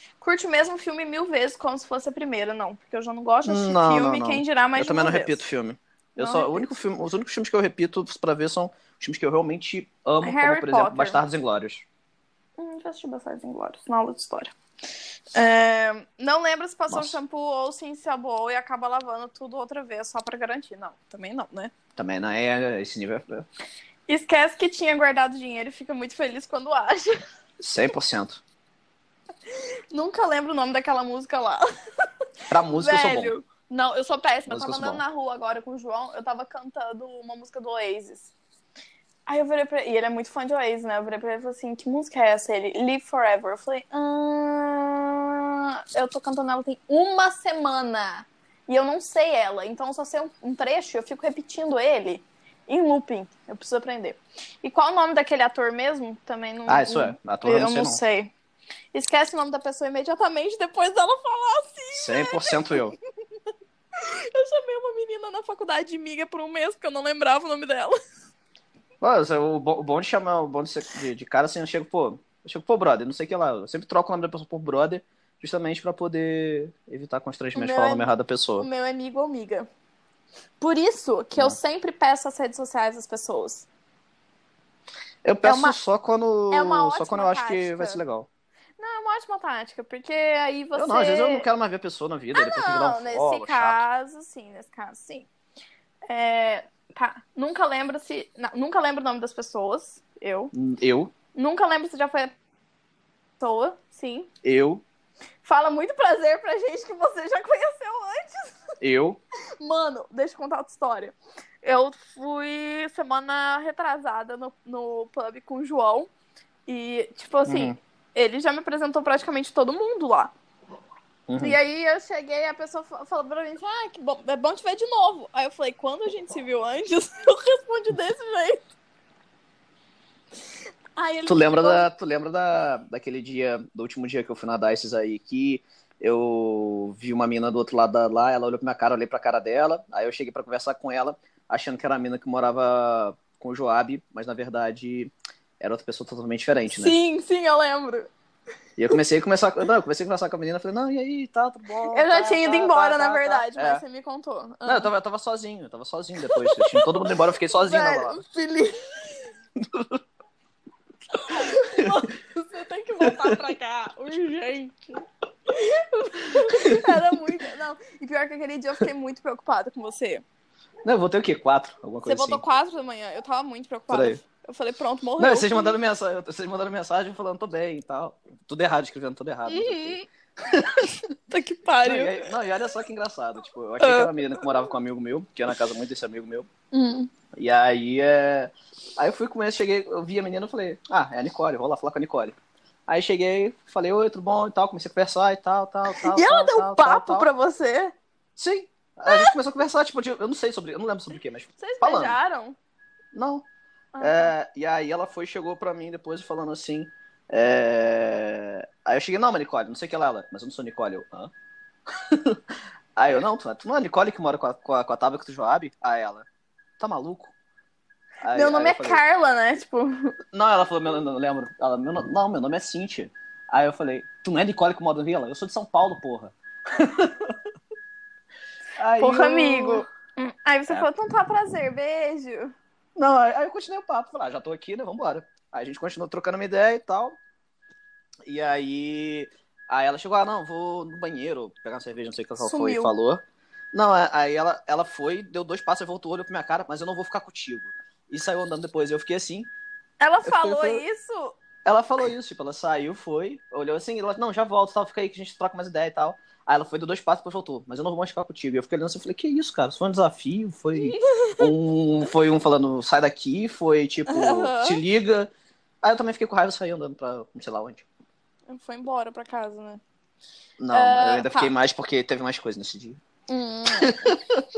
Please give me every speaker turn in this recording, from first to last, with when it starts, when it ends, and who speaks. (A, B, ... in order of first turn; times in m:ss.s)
0:00.2-0:05.4 A
0:03.4-0:11.8 B
0:06.2-0:06.7 A
0:10.2-0:11.2 A
0:12.6-0:14.5 A
0:15.3-0:21.7 A
0:16.9-0:17.2 B
0:22.0-0:23.5 B
0:24.1-0:27.2 A
0:27.6-0:28.4 B
0:29.5-0:32.1 A
0:32.5-0:33.4 B
0:32.7-0:38.3 A
0:34.5-0:35.0 B
0:39.3-0:58.3 A
0:56.7-0:58.0 B
0:58.9-1:02.9 A
1:01.9-1:03.0 B
1:03.9-1:08.0 A
1:09.0-1:18.7 B
1:17.6-1:19.7 A
1:20.6-1:23.7 A
1:25.2-1:28.3 B
1:25.4-1:25.8 A
1:26.5-1:28.0 A
1:28.8-1:31.5 A
1:30.8-1:33.8 B
1:32.3-1:35.3 A
1:36.1-1:40.5 A
1:40.5-1:41.1 B
1:41.3-1:42.3 A
1:43.4-1:44.3 A
1:44.4-1:44.8 B
1:45.4-1:48.7 A
1:48.8-1:49.2 B
1:49.6-1:56.1 A
1:56.7-2:00.3 A
1:57.5-1:57.8 B
2:01.3-2:01.6 B
2:01.4-2:08.7 A
2:11.0-2:11.9 A
2:11.3-2:27.0 B
2:26.7-2:28.1 A
2:28.8-2:33.8 B
2:31.9-2:34.9 A
2:34.6-2:38.2 B
2:36.2-2:36.9 A
2:37.5-2:39.3 A
2:39.6-2:40.0 B
2:41.1-2:50.2 A
2:41.5-2:42.0 B
2:43.1-2:43.4 B
2:46.4-2:47.0 B
2:50.8-2:52.4 B
2:52.0-2:55.8 A
2:53.9-2:54.2 B
2:55.2-3:01.0 B
2:59.5-3:00.0 A
3:01.3-3:02.3 A
3:01.8-3:06.5 B
3:03.8-3:04.4 A
3:06.7-3:07.1 A
3:07.3-3:12.4 B
3:12.9-3:17.3 B
3:16.0-3:17.9 A
3:18.4-3:22.2 B
3:19.1-3:19.4 A
3:21.6-3:22.6 A
3:23.1-3:23.4 B
3:23.9-3:24.3 A
3:24.0-3:31.3 B
3:31.9-3:32.4 B
3:33.0-3:36.3 B
3:36.8-3:37.3 B
3:38.2-3:39.0 B
3:38.3-3:40.2 A
3:40.3-3:47.4 B
3:48.8-3:49.9 B
3:49.0-3:52.5 A
3:53.0-3:57.2 B
3:58.3-4:09.5 B
4:02.4-4:02.9 A
4:10.0-4:11.4 A
4:10.2-4:10.8 B
4:11.6-4:25.3 B
4:20.8-4:21.5 A
4:24.1-4:24.8 A
4:25.8-4:27.9 B
4:28.5-4:29.8 A
4:30.6-4:33.0 B
4:30.7-4:31.5 A
4:33.3-4:34.2 A
4:33.7-4:34.4 B